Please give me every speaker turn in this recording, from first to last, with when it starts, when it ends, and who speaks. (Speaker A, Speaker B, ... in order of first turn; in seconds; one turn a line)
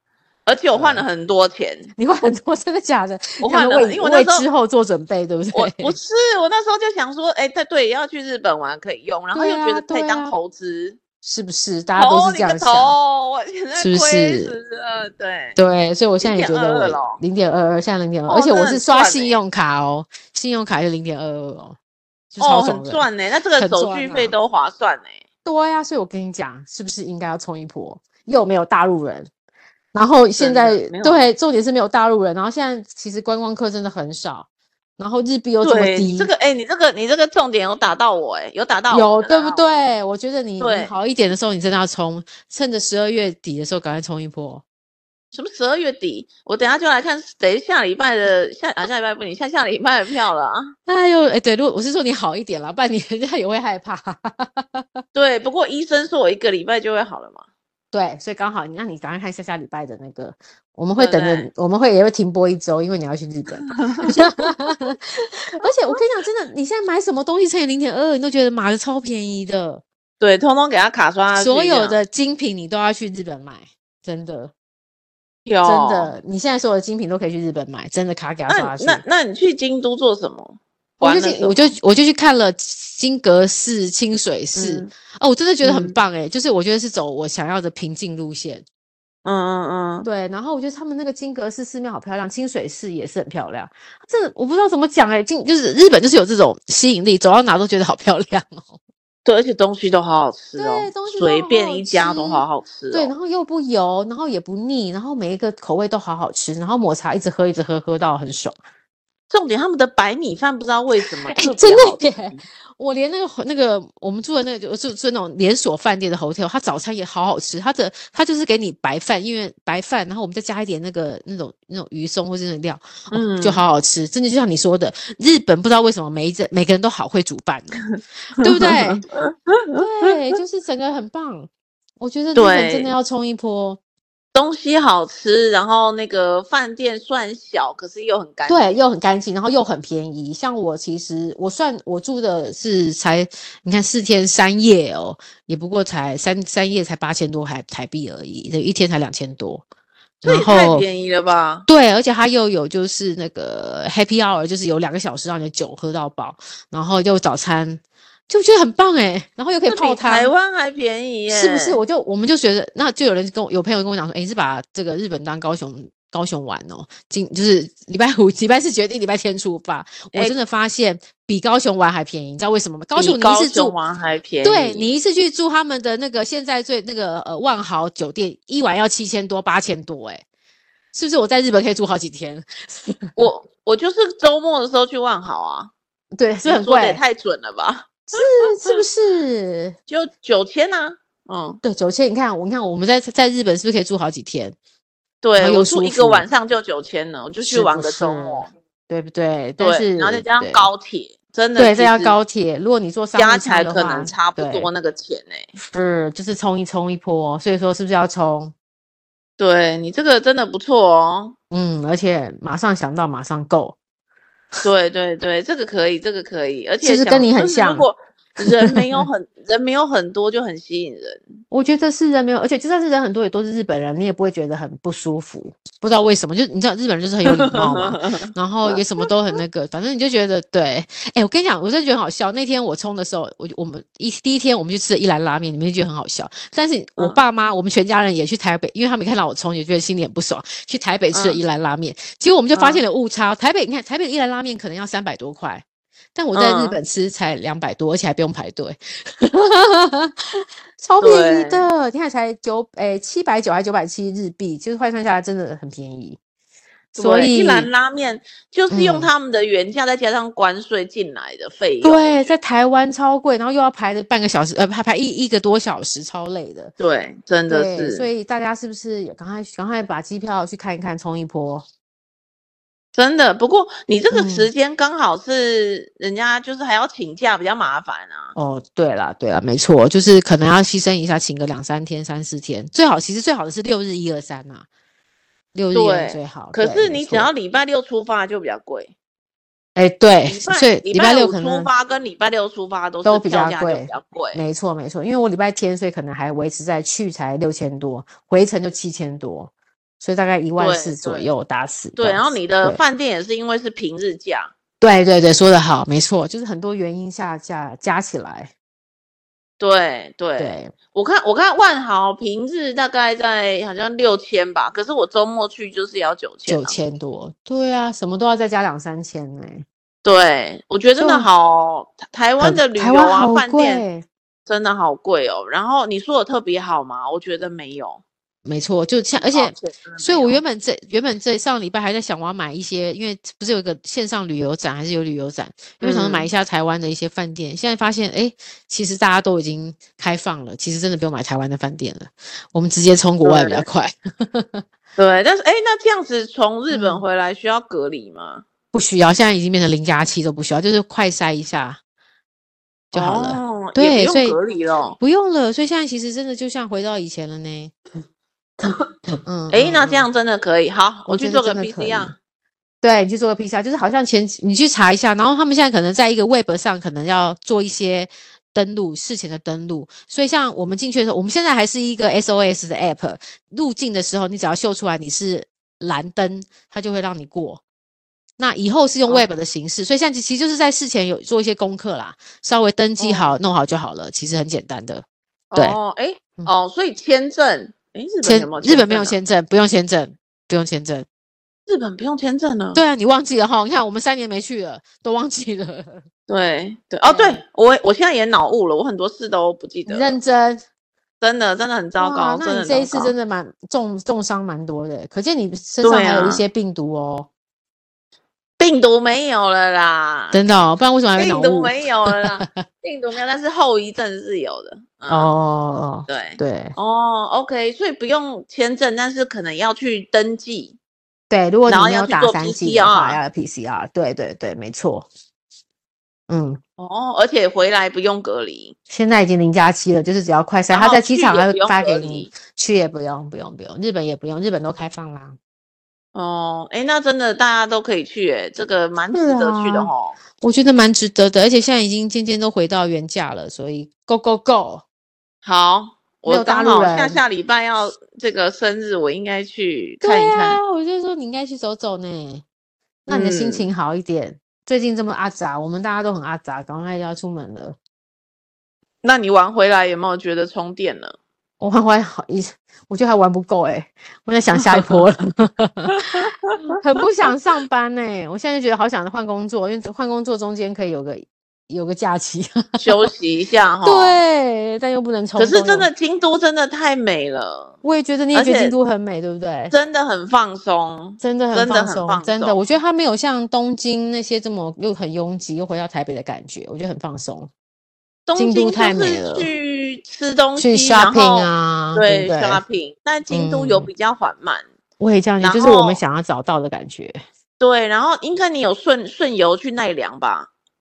Speaker A: 0.5-1.9
Speaker B: 0.7-1.0
Speaker B: 1.9-5.9
Speaker A: 3.4-4.5
Speaker A: 5.5-11.0
Speaker B: 9.3-10.3
Speaker B: 11.2-12.9
Speaker A: 11.9-15.6
Speaker B: 13.8-14.5
Speaker B: 15.6-21.8
Speaker A: 16.2-17.2
Speaker A: 18.3-19.4
Speaker B: 22.3-24.3
Speaker A: 22.4-25.2
Speaker B: 25.4-29.3
Speaker B: 29.9-36.3
Speaker A: 30.4-31.2
Speaker A: 35.6-39.7
Speaker B: 38.9-44.6
Speaker A: 40.6-40.9
Speaker A: 45.3-50.7
Speaker B: 50.9-55.0
Speaker A: 55.1-57.4
Speaker B: 57.9-69.8
Speaker A: 61.0-61.5
Speaker A: 63.6-64.1
Speaker A: 70.2-72.0
Speaker B: 71.3-74.5
Speaker A: 75.5-76.1
Speaker B: 75.6-79.0
Speaker A: 78.5-81.7
Speaker B: 81.0-88.6
Speaker A: 84.5-84.9
Speaker A: 85.6-85.9
Speaker A: 89.2-90.1
Speaker B: 90.0-98.8
Speaker A: 99.2-103.1
Speaker B: 100.6-108.6
Speaker A: 109.3-112.4
Speaker B: 111.3-127.8
Speaker A: 123.1-123.6
Speaker B: 128.4-129.0
Speaker A: 128.4-130.1
Speaker B: 129.7-133.8
Speaker A: 132.3-132.9
Speaker A: 134.3-138.6
Speaker B: 138.5-149.6
Speaker B: 150.2-150.8
Speaker A: 150.2-151.7
Speaker B: 151.7-160.3
Speaker A: 159.7-161.8
Speaker B: 161.3-173.7
Speaker A: 172.9-174.9
Speaker B: 174.4-180.2
Speaker B: 180.9-183.2
Speaker A: 183.2-185.7
Speaker B: 186.2-187.0
Speaker A: 186.4-188.8
Speaker B: 188.1-189.8
Speaker A: 189.9-191.6
Speaker B: 191.6-194.6
Speaker A: 195.2-198.5
Speaker B: 195.4-196.3
Speaker B: 197.4-200.7
Speaker A: 199.6-202.2
Speaker B: 201.6-204.7
Speaker A: 203.1-205.5
Speaker B: 205.7-208.5
Speaker A: 209.4-211.3
Speaker B: 211.5-213.8
Speaker A: 214.6-221.3
Speaker B: 216.8-217.9
Speaker B: 218.4-219.1
Speaker B: 221.5-245.6
Speaker A: 227.3-229.1
Speaker A: 241.1-241.4
Speaker A: 242.5-242.8
Speaker B: 246.1-250.1
Speaker A: 246.3-246.8
Speaker B: 250.8-256.2
Speaker A: 251.0-251.7
Speaker A: 256.9-262.3
Speaker B: 256.9-257.7
Speaker B: 258.7-259.1
Speaker B: 261.8-266.7
Speaker A: 266.8-268.1
Speaker B: 267.5-271.6
Speaker A: 272.9-278.3
Speaker B: 274.1-274.5
Speaker B: 278.3-284.7
Speaker B: 285.5-287.3
Speaker A: 285.7-288.9
Speaker B: 289.8-291.7
Speaker A: 290.2-294.4
Speaker B: 293.0-302.8
Speaker A: 300.6-301.3
Speaker A: 302.0-304.5
Speaker B: 304.8-308.5
Speaker A: 309.6-316.8
Speaker B: 310.4-310.7
Speaker B: 316.5-319.6
Speaker A: 320.0-323.8
Speaker B: 321.0-321.3
Speaker B: 322.4-324.1
Speaker A: 324.5-328.0
Speaker B: 328.4-344.6
Speaker A: 329.2-330.4
Speaker A: 335.8-336.3
Speaker A: 343.2-343.6
Speaker A: 345.0-348.4
Speaker B: 346.7-347.0
Speaker B: 348.7-351.8
Speaker B: 352.9-354.4
Speaker A: 352.9-355.0
Speaker B: 355.0-357.7
Speaker B: 359.2-360.1
Speaker A: 359.5-362.1
Speaker B: 361.1-362.1
Speaker B: 362.8-377.6
Speaker B: 378.4-385.8
Speaker A: 383.0-383.3
Speaker A: 385.5-389.1
Speaker B: 388.2-391.1
Speaker A: 391.7-392.8
Speaker B: 392.7-396.0
Speaker A: 396.3-400.2
Speaker B: 397.1-397.4
Speaker B: 399.9-400.6
Speaker A: 401.2-403.1
Speaker B: 402.0-407.3
Speaker A: 405.8-406.4
Speaker A: 408.6-410.4
Speaker B: 410.3-412.6
Speaker A: 411.1-415.3
Speaker B: 415.1-416.8
Speaker A: 416.1-420.8
Speaker B: 421.3-425.1
Speaker A: 421.7-423.2
Speaker B: 426.3-426.6
Speaker A: 426.8-428.7
Speaker B: 428.9-435.4
Speaker A: 430.7-432.3
Speaker A: 436.1-440.1
Speaker B: 439.1-444.8
Speaker A: 445.4-450.6
Speaker B: 446.2-447.2
Speaker B: 450.0-452.4
Speaker B: 453.1-457.8
Speaker A: 453.1-453.6
Speaker A: 459.0-461.1
Speaker B: 461.6-466.2
Speaker A: 464.5-465.0
Speaker A: 465.9-466.6
Speaker B: 466.8-473.1
Speaker A: 472.8-474.2
Speaker B: 473.8-475.9
Speaker A: 475.4-477.8
Speaker B: 477.8-479.7
Speaker A: 478.3-478.7
Speaker A: 479.7-482.6
Speaker B: 481.2-487.5
Speaker A: 488.2-494.7
Speaker B: 488.4-489.5
Speaker B: 490.6-492.6
Speaker B: 493.3-493.9
Speaker B: 495.0-497.2
Speaker A: 495.4-496.0
Speaker A: 497.6-500.5